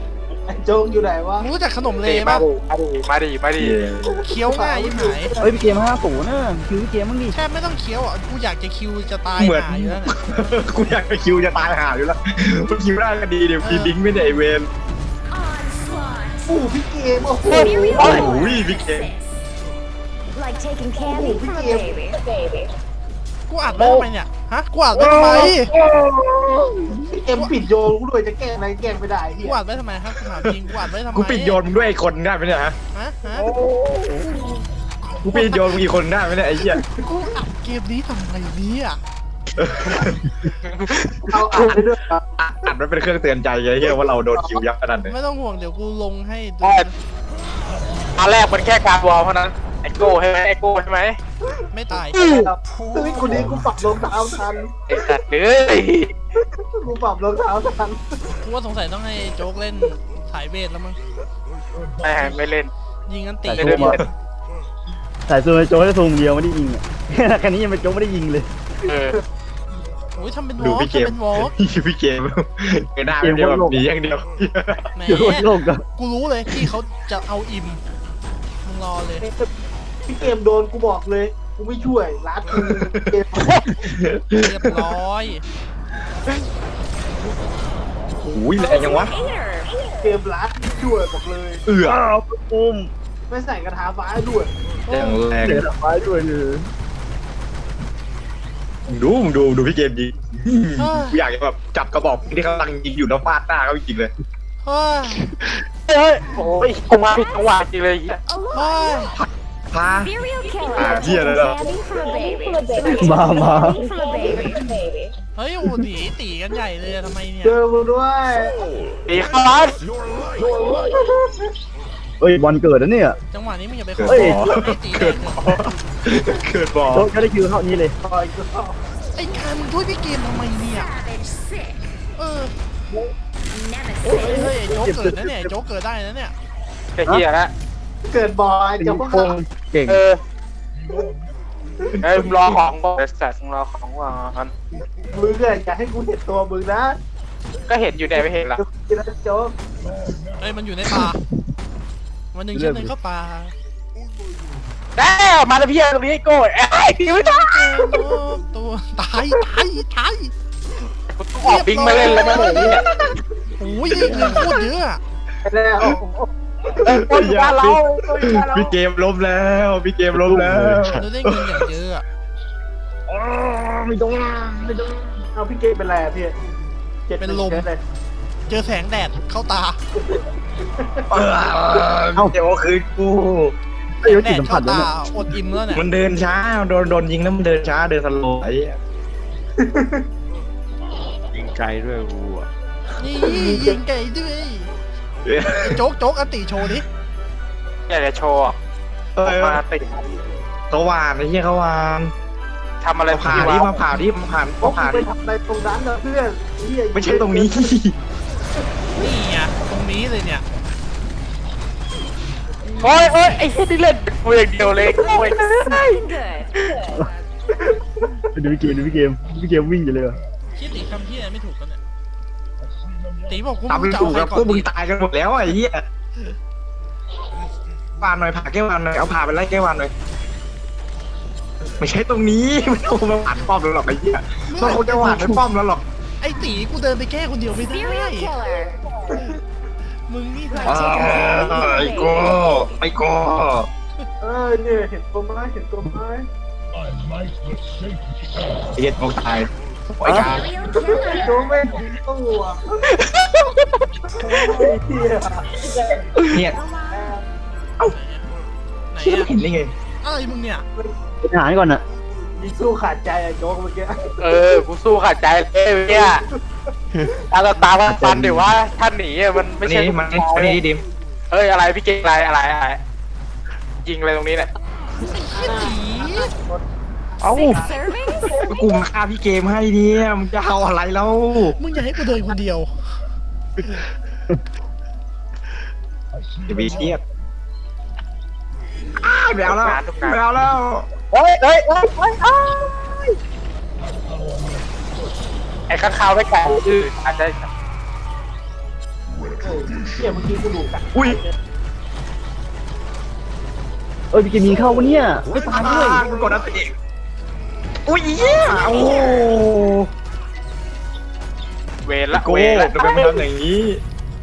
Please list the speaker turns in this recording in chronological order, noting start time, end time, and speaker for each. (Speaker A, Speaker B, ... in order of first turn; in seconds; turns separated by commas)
Speaker A: 0.5-1.5, Speaker B: 1.4-2.5, Speaker C: 2.0-3.8, Speaker D: 3.6-4.1, Speaker A: 4.0-5.5, Speaker B: 4.2-5.4, Speaker E: 5.4-7.3, Speaker B: 7.3-10.2, Speaker D: 9.3-14.7, Speaker B: 13.6-13.9, Speaker F: 15.3-16.5, Speaker A: 16.5-18.3, Speaker F: 17.4-19.2, Speaker C: 17.5-18.3, Speaker D: 18.0-19.1, Speaker F: 20.3-22.7, Speaker A: 21.0-21.9, Speaker B: 23.5-25.7, Speaker E: 23.8-24.1, Speaker E: 24.9-27.1, Speaker A: 27.1-29.6, Speaker B: 29.4-31.6, Speaker D: 30.4-32.8, Speaker B: 32.9-33.5, Speaker E: 33.2-34.6, Speaker D: 35.2-36.8, Speaker B: 35.3-35.8, Speaker A: 36.7-37.0, Speaker B: 37.0-39.0, Speaker D: 39.6-40.3, Speaker C: 40.8-41.8, Speaker A: 41.3-42.2, Speaker D: 42.4-45.1, Speaker B: 45.0-46.9, Speaker C: 48.2-51.1, Speaker B: 51.7-52.2, Speaker A: 51.9-54.7, Speaker C: 52.1-52.5, Speaker C: 54.9-56.1, Speaker A: 56.4-58.0, Speaker B: 58.4-61.0, Speaker C: 62.0-62.7, Speaker B: 63.1-64.0, Speaker C: 63.5-64.1, Speaker E: 63.6-64.0, Speaker E: 65.3-68.5, Speaker C: 68.8-69.2, Speaker B: 70.2-71.5, Speaker D: 70.6-74.9, Speaker E: 73.2-73.8, Speaker B: 74.9-77.8, Speaker E: 75.1-75.8, Speaker B: 78.6-79.3, Speaker A: 79.2-79.5, Speaker A: 80.1-83.5, Speaker D: 82.5-83.1, Speaker C: 83.4-83.7, Speaker D: 83.8-84.9, Speaker B: 84.4-85.4, Speaker D: 88.3-89.1, Speaker F: 88.5-90.1, Speaker A: 90.0-91.6, Speaker D: 91.7-92.0, Speaker E: 91.8-92.9, Speaker A: 93.3-94.5, Speaker B: 94.9-95.2, Speaker D: 94.9-95.6, Speaker E: 95.4-96.7, Speaker D: 98.9-104.1, Speaker B: 100.8-101.2, Speaker B: 104.6-105.2, Speaker C: 105.9-108.2, Speaker F: 107.2-107.5, Speaker F: 108.2-109.2, Speaker B: 108.5-109.1, Speaker D: 109.1-110.1, Speaker F: 110.0-115.1, Speaker D: 110.7-111.6, Speaker E: 113.0-113.8, Speaker A: 114.2-114.6, Speaker B: 115.3-117.6, Speaker A: 117.4-118.6, Speaker C: 119.1-119.8, Speaker E: 120.4-121.1, Speaker E: 122.2-123.2, Speaker B: 123.3-125.5, Speaker D: 124.0-127.1, Speaker E: 124.1-124.4, Speaker E: 126.9-128.0, Speaker A: 128.0-128.8, Speaker B: 129.2-130.9, Speaker F: 130.7-131.8, Speaker B: 132.2-132.5, Speaker F: 133.5-134.5, Speaker E: 134.0-135.5, Speaker B: 134.1-136.3, Speaker C: 136.9-137.5, Speaker A: 138.1-139.3, Speaker E: 138.8-140.0, Speaker C: 139.9-140.2, Speaker D: 141.9-142.6, Speaker C: 142.0-144.5, Speaker A: 145.1-147.0, Speaker C: 147.7-148.6, Speaker A: 148.5-149.5, Speaker B: 150.4-151.2, Speaker B: 152.3-153.5, Speaker E: 152.5-152.9, Speaker C: 154.9-157.8, Speaker B: 157.1-160.3, Speaker C: 161.1-162.8, Speaker B: 161.4-162.8, Speaker A: 162.2-162.7, Speaker D: 162.7-163.1, Speaker B: 163.6-165.0, Speaker A: 164.0-164.4, Speaker D: 164.0-164.4, Speaker A: 165.4-167.1, Speaker C: 166.8-168.7, Speaker D: 166.9-171.6, Speaker G: 170.2-171.0, Speaker E: 170.4-170.8, Speaker B: 170.9-172.0, Speaker E: 173.1-175.2, Speaker A: 175.3-176.3, Speaker A: 177.1-177.8, Speaker B: 177.2-177.7, Speaker B: 178.5-179.8, Speaker A: 179.9-181.0, Speaker D: 181.1-183.5, Speaker E: 184.0-185.0, Speaker B: 184.0-185.8, Speaker D: 185.7-188.8, Speaker A: 189.6-190.1, Speaker G: 191.3-192.5, Speaker B: 193.0-194.7, Speaker A: 193.2-193.8, Speaker D: 195.2-195.8, Speaker B: 195.6-196.8, Speaker C: 197.9-198.6, Speaker D: 199.2-199.6, Speaker C: 199.2-200.1, Speaker D: 200.7-202.1, Speaker C: 202.8-203.7, Speaker D: 203.1-205.1, Speaker A: 204.6-207.7, Speaker D: 206.9-207.9, Speaker B: 209.0-210.4, Speaker F: 212.7-213.2, Speaker C: 212.8-216.0, Speaker F: 214.8-217.1, Speaker E: 218.3-220.2, Speaker B: 220.6-221.8, Speaker B: 223.3-224.7, Speaker D: 223.7-225.8, Speaker D: 228.0-229.9, Speaker D: 231.8-235.8, Speaker B: 234.5-235.4, Speaker B: 236.2-238.3, Speaker F: 237.6-238.8, Speaker B: 240.1-241.5, Speaker F: 240.5-242.8, Speaker D: 240.6-243.7, Speaker A: 244.2-246.3, Speaker D: 248.7-250.5, Speaker E: 250.0-250.3, Speaker F: 250.1-251.8, Speaker A: 250.7-252.8, Speaker C: 252.9-253.6, Speaker A: 254.2-255.5, Speaker F: 255.9-257.1, Speaker D: 256.2-256.6, Speaker A: 256.9-257.2, Speaker B: 257.9-258.3, Speaker B: 258.9-259.3, Speaker D: 259.0-259.7, Speaker B: 260.0-260.6, Speaker E: 261.2-261.8, Speaker A: 262.4-264.6, Speaker C: 264.2-266.2, Speaker A: 265.9-266.4, Speaker C: 267.3-270.6, Speaker G: 267.8-268.4, Speaker D: 269.6-270.8, Speaker C: 271.3-272.8, Speaker C: 273.8-274.5, Speaker B: 275.1-276.3, Speaker A: 275.2-278.4, Speaker F: 277.2-278.8, Speaker D: 278.5-281.6, Speaker B: 281.6-282.8, Speaker D: 286.5-287.0, Speaker D: 289.0-290.9, Speaker C: 289.4-290.2, Speaker C: 291.1-293.1, Speaker C: 295.7-297.5, Speaker A: 299.4-301.3, Speaker E: 304.1-306.1, Speaker A: 304.4-306.1, Speaker D: 305.4-306.7, Speaker D: 307.9-309.9, Speaker F: 308.2-309.3, Speaker C: 311.8-313.2, Speaker D: 312.1-313.8